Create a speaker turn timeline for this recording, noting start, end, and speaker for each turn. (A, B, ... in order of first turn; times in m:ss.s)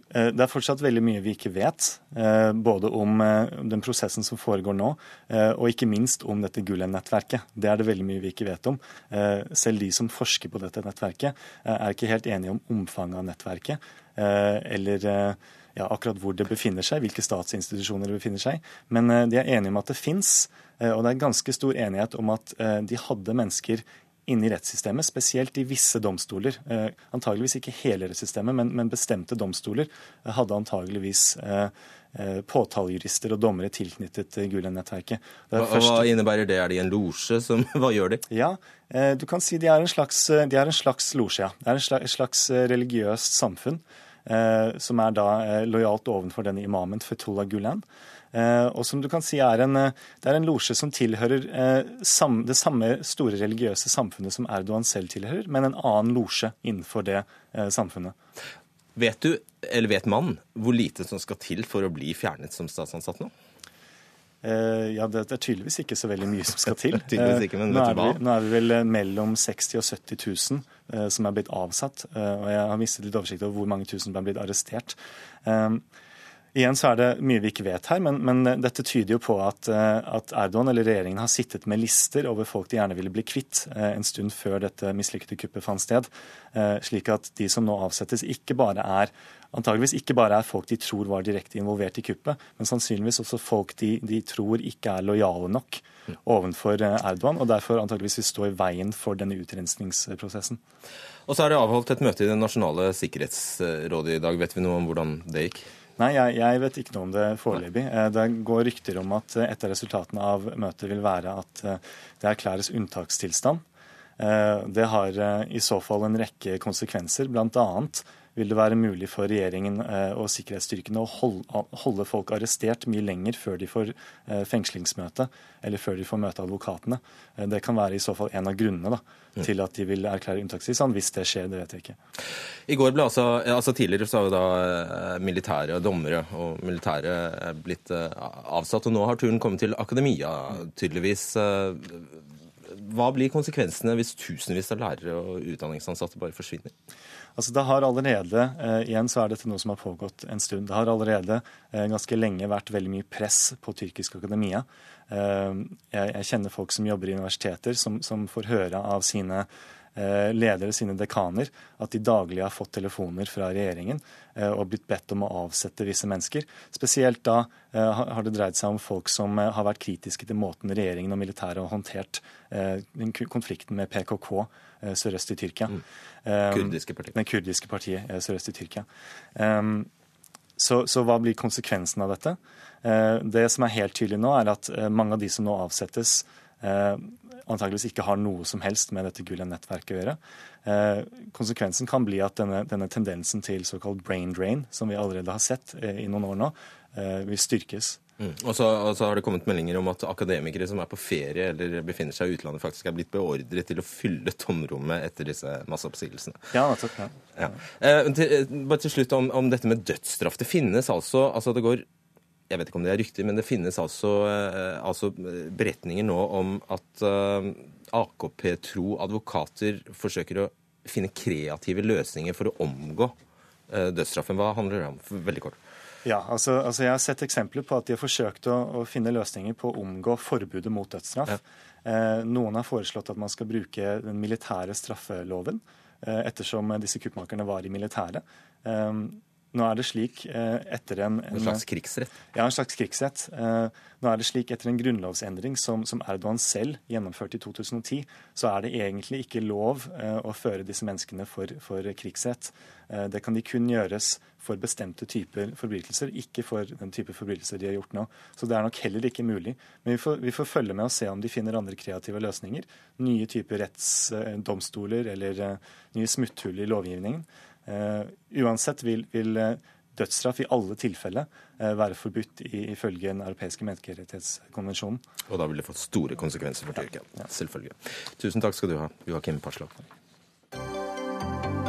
0:00.1-0:36.1 A
0:35.6-0:38.2 B
0:38.3-0:58.2 A
0:59.0-1:03.3 B
1:04.4-1:15.8 A
1:07.0-1:08.2 B
1:16.5-1:40.6 A
1:41.3-1:45.7 B
1:46.0-1:53.6 A
1:54.2-2:12.0 A
2:12.7-2:26.7 B
2:27.4-2:59.9 A
2:56.5-2:57.2 B
3:00.6-3:18.0 A
3:18.2-3:26.5 B
3:26.5-3:27.1 A
3:27.4-3:31.9 B
3:32.5-3:43.1 B
3:43.7-3:45.6 B
3:46.0-4:01.6 A
4:01.3-4:02.2 B
4:02.3-4:35.0 A
4:35.3-4:39.8 B